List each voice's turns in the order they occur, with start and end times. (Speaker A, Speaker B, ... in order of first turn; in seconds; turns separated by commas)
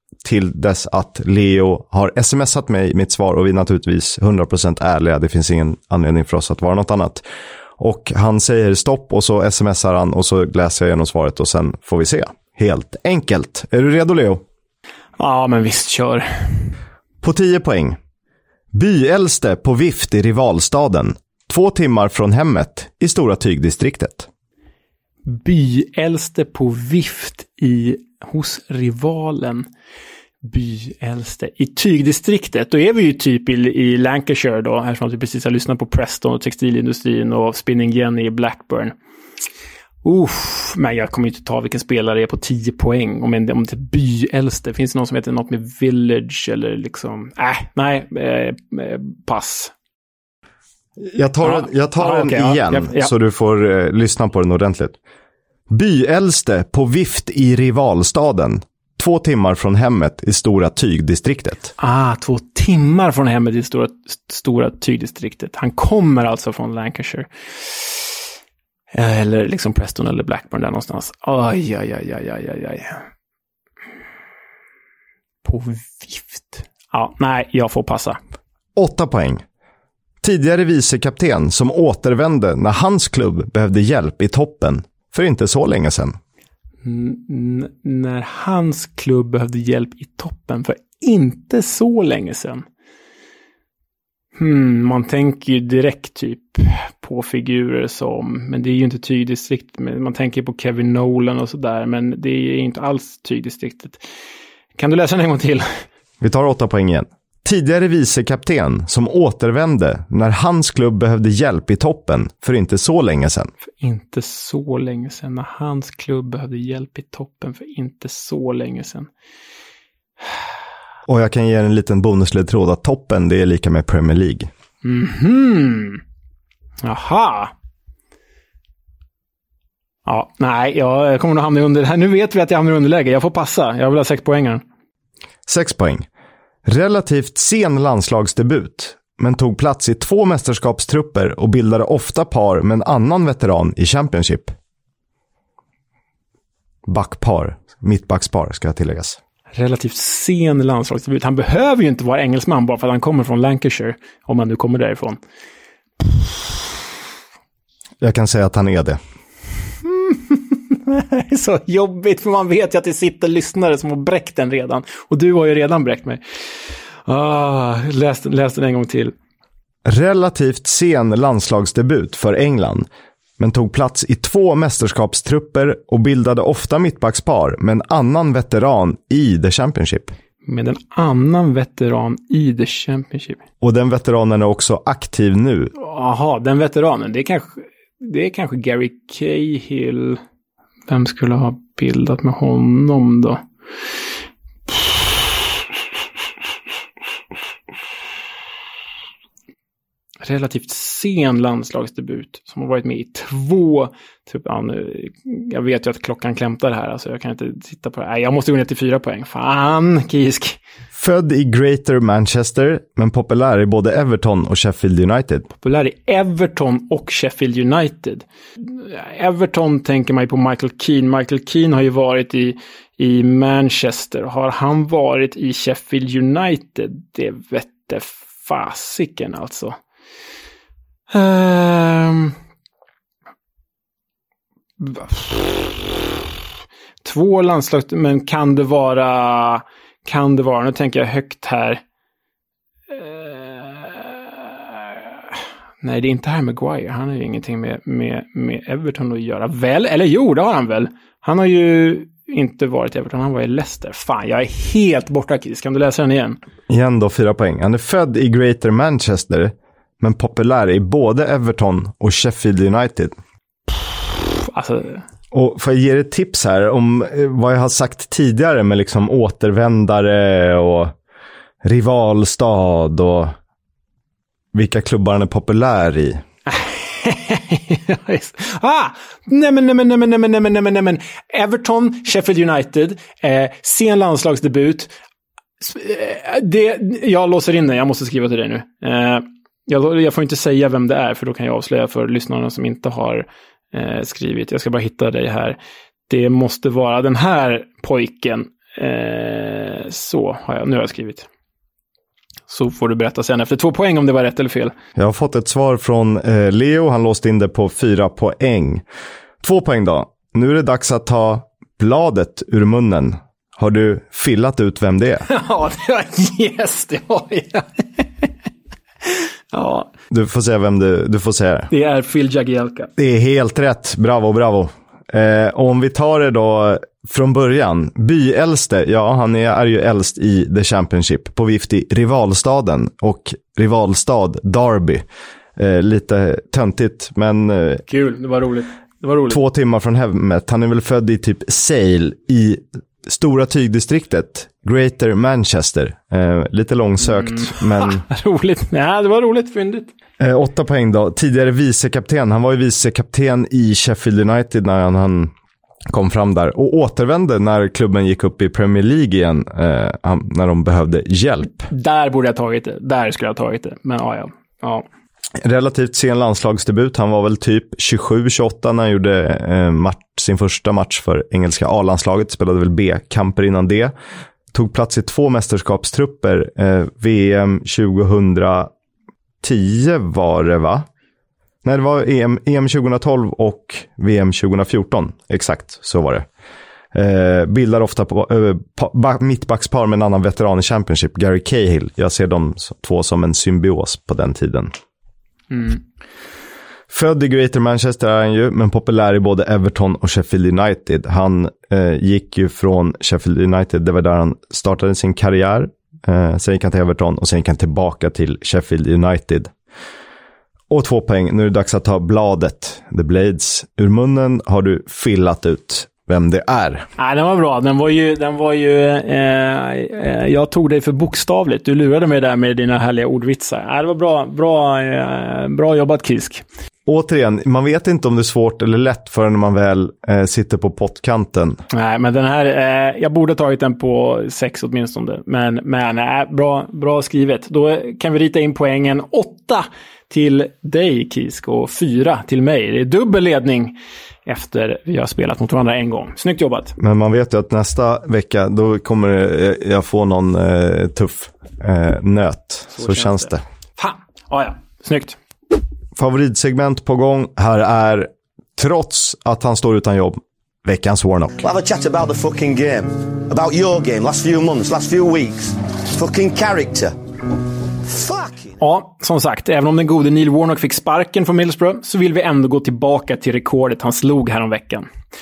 Speaker A: 0.2-7.2, Speaker A: 7.8-14.4, Speaker B: 15.2-16.7, Speaker A: 17.2-18.0, Speaker A: 18.7-24.3, Speaker B: 25.3-29.7, Speaker B: 30.4-39.0, Speaker B: 40.0-49.7, Speaker A: 51.0-55.0, Speaker B: 51.4-53.1, Speaker A: 55.7-61.7, Speaker B: 61.8-68.2, Speaker B: 68.9-73.0, Speaker B: 75.4-78.2, Speaker A: 78.8-79.4, Speaker A: 80.2-86.2, Speaker B: 86.8-92.6, Speaker B: 94.4-104.0, Speaker B: 104.8-105.7, Speaker A: 106.2-113.5, Speaker B: 113.8-119.1, Speaker A: 121.1-124.5, Speaker B: 124.8-126.0, Speaker B: 126.8-127.5, Speaker B: 130.1-134.6, Speaker A: 135.5-136.1, Speaker A: 136.7-144.5, Speaker A: 146.9-149.2, Speaker B: 149.5-155.2, Speaker A: 158.0-159.0, Speaker B: 159.8-166.2, Speaker B: 167.1-169.1, Speaker A: 169.9-172.9, Speaker A: 173.4-180.1, Speaker B: 180.5-183.4, Speaker A: 183.6-185.7, Speaker B: 185.8-190.2, Speaker B: 190.9-193.4, Speaker B: 200.2-210.6, Speaker A: 210.9-215.5, Speaker B: 215.6-229.8, Speaker B: 231.1-232.3, Speaker B: 234.8-235.5, Speaker B: 237.0-241.8, Speaker B: 242.9-256.4, Speaker A: 256.7-263.1, Speaker B: 264.4-265.0, Speaker A: 265.3-270.9, Speaker A: 271.6-273.3, Speaker A: 274.5-276.2, Speaker B: 276.5-284.9, Speaker B: 285.6-301.3, Speaker B: 302.5-304.7, Speaker A: 305.0-308.8, Speaker A: 309.4-315.3, Speaker B: 315.3-318.3, Speaker B: 319.5-319.9, Speaker A: 320.1-321.7, Speaker B: 321.7-322.9, Speaker A: 323.0-335.0, Speaker A: 335.6-337.8, Speaker B: 337.9-339.4, Speaker A: 339.3-348.0, Speaker B: 347.0-349.9, Speaker A: 350.2-355.3, Speaker A: 355.9-361.7, Speaker B: 361.7-364.9, Speaker A: 365.4-373.9, Speaker A: 374.5-378.7, Speaker A: 379.4-380.9, Speaker A: 381.6-386.2, Speaker A: 386.9-394.7, Speaker B: 395.5-395.8, Speaker A: 396.9-409.5, Speaker A: 410.7-416.9, Speaker B: 417.0-426.4, Speaker A: 426.9-431.6, Speaker B: 431.7-446.8, Speaker A: 446.8-453.4, Speaker B: 452.8-455.2, Speaker A: 456.0-461.4, Speaker C: 461.4-466.9, Speaker C: 467.9-468.4, Speaker B: 468.6-474.9